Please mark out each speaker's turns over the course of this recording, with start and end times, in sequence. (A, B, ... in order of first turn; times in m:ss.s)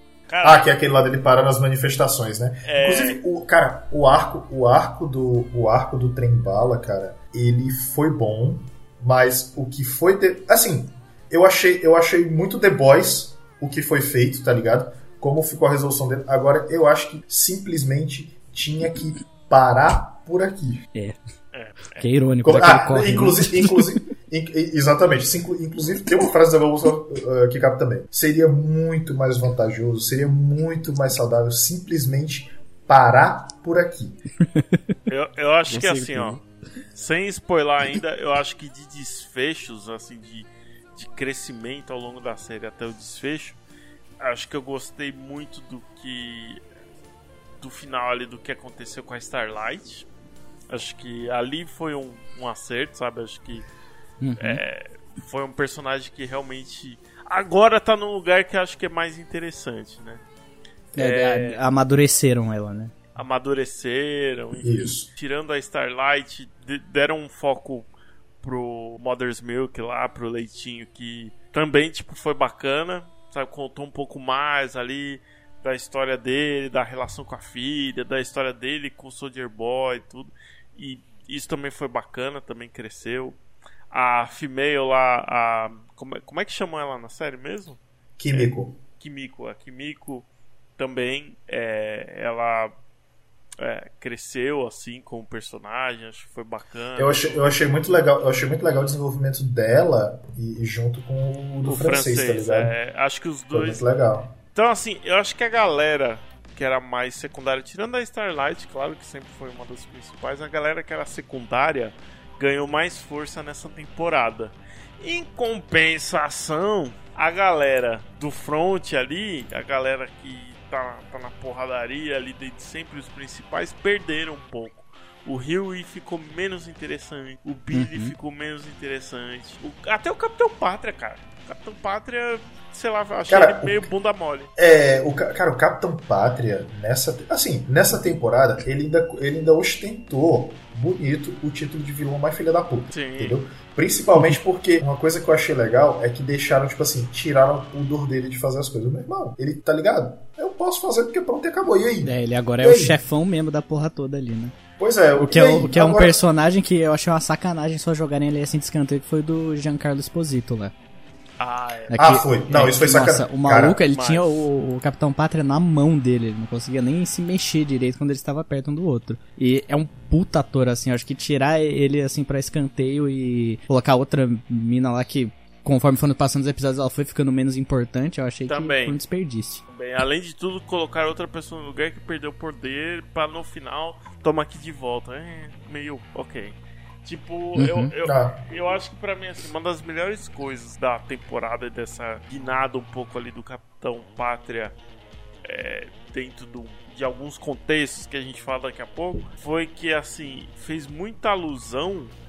0:00.3-0:00.7 A
0:00.4-0:20.9 B
0:02.7-0:03.2 A
0:21.5-0:22.1 A
0:22.0-0:23.8 C
0:22.4-0:34.2 B
0:34.5-0:35.0 C
0:35.1-0:36.4 A
0:35.7-0:36.4 C
0:37.0-0:43.6 A
0:44.2-0:46.6 A
0:47.6-0:50.1 A
0:50.7-0:53.7 A
0:54.2-0:54.6 C
0:54.4-1:00.2 A
1:01.0-1:01.6 A
1:01.0-1:02.9 C
1:03.2-1:07.9 A
1:04.6-1:05.1 B
1:08.4-1:23.4 A
1:23.9-1:27.8 A
1:28.2-1:28.8 B
1:28.3-1:30.3 A
1:30.8-1:32.8 A
1:33.6-1:37.5 A
1:37.0-1:42.7 B
1:41.7-1:43.8 A
1:43.5-1:44.3 B
1:44.6-2:14.5 A
2:07.7-2:08.1 C
2:13.3-2:13.9 B
2:14.6-2:33.0 B
2:22.9-2:23.4 A
2:32.0-2:34.6 C
2:34.8-2:36.2 B
2:35.1-2:40.7 C
2:41.4-2:42.0 A
2:41.9-2:59.6 C
2:42.0-2:43.8 B
2:43.9-2:44.5 A
2:58.5-2:59.0 A
2:59.7-3:14.7 A
3:07.6-3:07.9 C
3:08.0-3:08.4 B
3:15.4-3:22.1 A